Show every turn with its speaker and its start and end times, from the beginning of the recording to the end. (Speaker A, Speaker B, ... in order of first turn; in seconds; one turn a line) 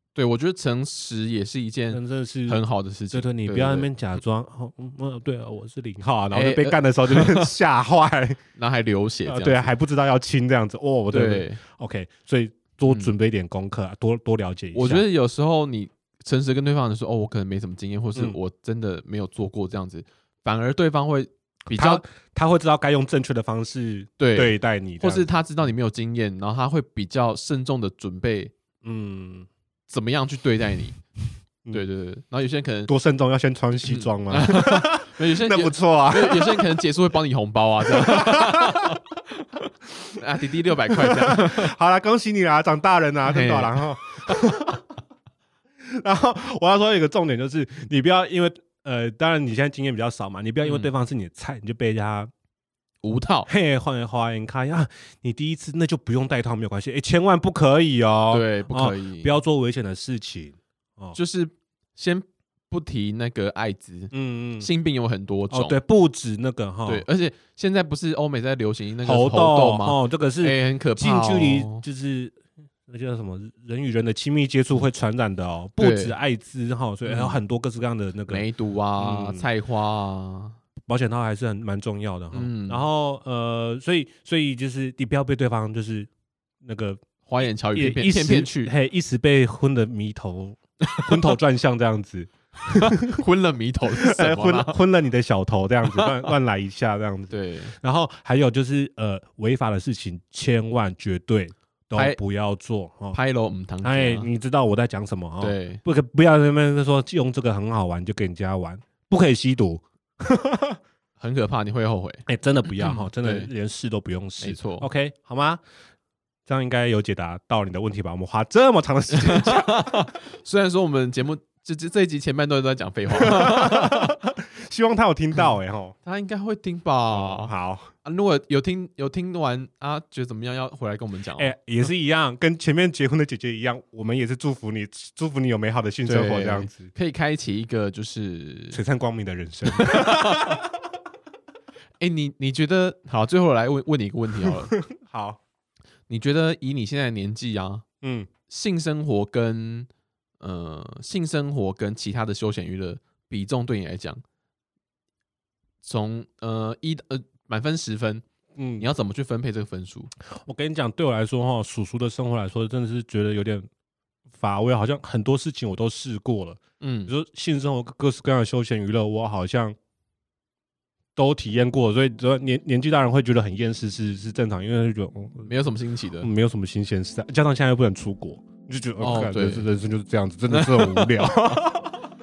Speaker A: 0.1-3.9
Speaker B: 1.9-8.4
Speaker A: 6.3-7.5
Speaker A: 8.6-9.7
Speaker B: 9.3-15.0
Speaker A: 11.1-11.6
Speaker A: 12.9-13.1
Speaker A: 14.7-22.0
Speaker B: 21.7-25.2
Speaker A: 24.2-28.5
Speaker B: 28.8-29.5
Speaker A: 29.9-31.0
Speaker A: 31.7-32.9
Speaker B: 32.9-36.8
Speaker A: 33.8-39.6
Speaker B: 37.9-39.0
Speaker A: 40.1-41.7
Speaker B: 40.9-44.8
Speaker A: 43.2-44.4
Speaker B: 45.8-52.3
Speaker A: 50.6-50.9
Speaker A: 53.0-53.5
Speaker B: 53.5-61.2
Speaker A: 58.3-59.4
Speaker A: 61.1-65.8
Speaker B: 64.1-64.7
Speaker B: 65.5-67.0
Speaker A: 66.8-71.8
Speaker B: 69.0-78.4
Speaker A: 75.8-76.1
Speaker A: 77.0-77.4
Speaker A: 78.3-80.6
Speaker B: 79.0-79.4
Speaker B: 80.8-86.1
Speaker A: 82.3-82.8
Speaker B: 86.6-93.2
Speaker A: 87.2-88.7
Speaker A: 90.8-91.3
Speaker A: 92.7-94.8
Speaker B: 94.0-103.2
Speaker A: 95.9-96.3
Speaker A: 97.3-97.8
Speaker A: 103.1-104.3
Speaker B: 103.8-110.8
Speaker A: 105.4-105.8
Speaker A: 111.2-113.5
Speaker B: 112.2-115.6
Speaker A: 114.4-114.9
Speaker B: 116.5-120.1
Speaker A: 119.1-124.2
Speaker B: 123.1-125.9
Speaker A: 126.0-131.5
Speaker B: 127.1-127.9
Speaker B: 131.4-136.9
Speaker A: 136.1-138.8
Speaker B: 138.7-140.7
Speaker A: 139.7-140.6
Speaker A: 142.0-144.7
Speaker B: 144.4-145.4
Speaker A: 146.1-147.8
Speaker B: 148.0-148.3
Speaker A: 148.5-149.9
Speaker A: 150.4-154.2
Speaker A: 155.8-158.2
Speaker B: 158.6-158.9
Speaker A: 158.8-160.1
Speaker B: 160.3-163.7
Speaker B: 164.3-169.8
Speaker A: 166.8-167.1
Speaker B: 171.2-175.5
Speaker A: 175.4-176.3
Speaker B: 176.2-182.0
Speaker A: 179.0-179.7
Speaker A: 180.5-181.7